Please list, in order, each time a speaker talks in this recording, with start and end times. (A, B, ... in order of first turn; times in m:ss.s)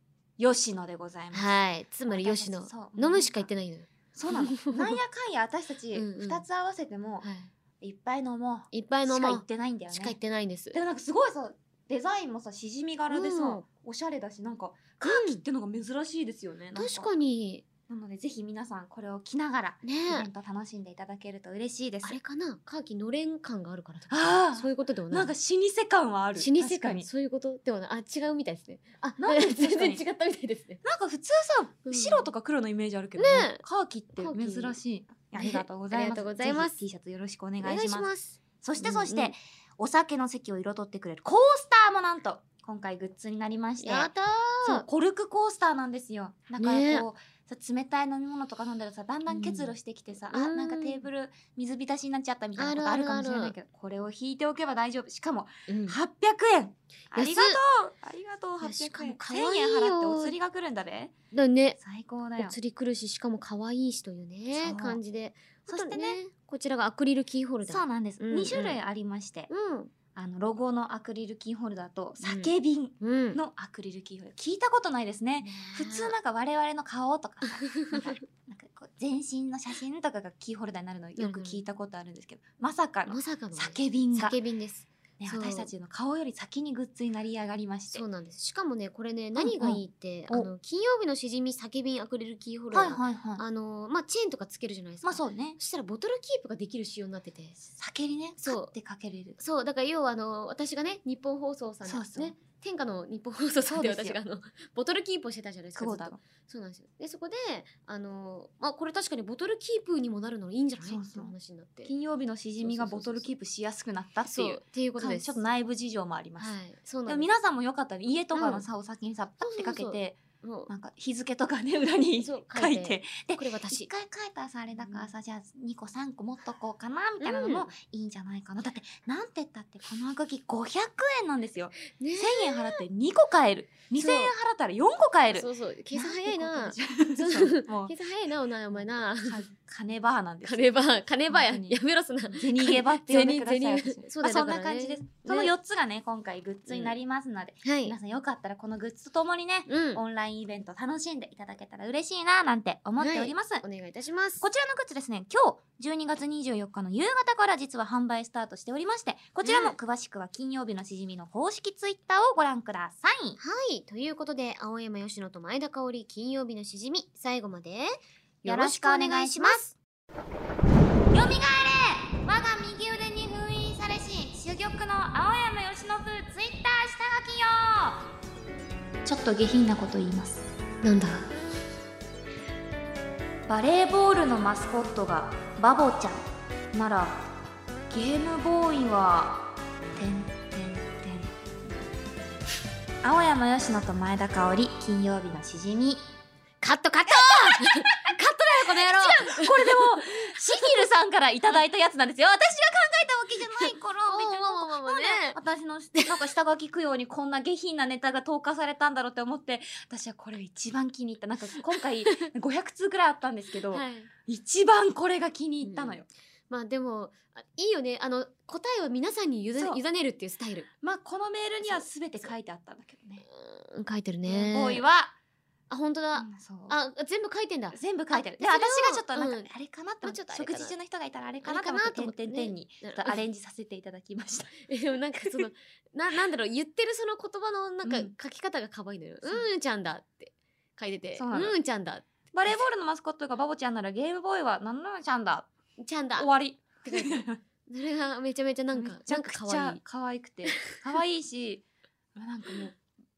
0:00.4-0:03.5 A
0:01.3-0:05.0 B
0:04.2-0:07.3 A
0:05.9-0:06.4 B
0:07.2-0:07.5 B
0:07.8-0:10.2 A
0:08.7-0:10.8 B
0:10.7-0:17.1 A
0:13.1-0:13.6 B
0:15.0-0:15.4 B
0:16.8-0:17.6 B
0:17.9-0:22.2 A
0:19.8-0:20.3 B
0:22.0-0:25.3 B
0:24.1-0:27.1 A
0:26.4-0:30.8 B
0:29.2-0:30.0 A
0:30.8-0:38.1 A
0:31.9-0:32.3 B
0:33.2-0:33.6 B
0:34.2-0:34.8 B
0:35.4-0:36.8 B
0:37.6-0:39.3 B
0:38.6-0:44.1 A
0:43.8-0:44.8 B
0:44.6-1:01.1 A
0:46.6-0:47.1 B
0:49.3-0:49.7 B
0:50.3-0:51.0 B
0:52.6-0:53.6 B
0:55.7-0:56.0 B
0:57.1-0:57.6 B
0:58.6-1:00.4 B
1:01.3-1:01.8 B
1:01.8-1:02.6 A
1:02.4-1:08.8 B
1:04.6-1:05.0 A
1:05.7-1:06.2 A
1:07.7-1:09.5 A
1:09.5-1:09.9 B
1:10.2-1:24.4 A
1:12.2-1:13.4 B
1:15.4-1:16.1 B
1:17.6-1:18.2 B
1:21.2-1:21.6 B
1:23.1-1:25.7 B
1:25.2-1:28.0 A
1:27.9-1:37.6 B
1:29.4-1:30.5 A
1:32.7-1:33.4 A
1:35.0-1:35.6 A
1:37.8-1:39.4 A
1:38.4-1:38.7 B
1:39.4-1:51.9 B
1:41.9-1:42.3 A
1:43.6-1:44.2 A
1:45.8-1:46.2 A
1:50.8-1:51.3 A
1:51.9-1:56.5 A
1:52.6-1:53.3 B
1:54.3-1:55.4 B
1:56.4-1:57.3 B
1:57.1-2:17.9 A
1:58.4-1:58.6 B
1:59.4-2:00.7 B
2:02.2-2:03.9 B
2:04.8-2:05.1 B
2:07.2-2:07.7 B
2:11.9-2:12.8 B
2:14.0-2:14.3 B
2:15.3-2:19.4 B
2:18.7-2:21.8 A
2:20.4-2:25.5 B
2:22.3-2:33.6 A
2:26.7-2:27.0 B
2:27.6-2:28.0 B
2:29.7-2:30.0 B
2:33.0-2:34.4 B
2:34.4-2:43.4 A
2:39.4-2:39.8 B
2:43.4-2:49.7 B
2:48.4-2:49.7 A
2:51.1-2:58.0 A
2:59.0-3:00.4 A
3:00.8-3:01.3 B
3:03.5-3:07.2 A
3:07.9-3:11.3 A
3:13.0-3:16.0 A
3:16.6-3:20.8 B
3:17.1-3:36.1 A
3:23.6-3:25.4 B
3:26.0-3:26.2 B
3:33.7-3:34.1 B
3:35.6-3:40.7 B
3:39.6-3:39.8 A
3:40.8-3:43.2 A
3:43.2-3:44.8 B
3:44.3-3:45.2 A
3:45.7-3:49.5 B
3:46.2-3:46.8 A
3:47.7-3:54.7 A
3:50.0-3:50.7 B
3:51.4-3:53.2 B
3:54.7-4:02.0 B
3:55.2-3:55.5 A
3:57.8-3:58.1 A
3:59.2-3:59.5 A
4:01.2-4:01.6 A
4:02.3-4:05.5 A
4:05.8-4:06.3 B
4:06.2-4:07.4 A
4:06.8-4:09.8 B
4:08.7-4:12.8 A
4:10.5-4:10.8 B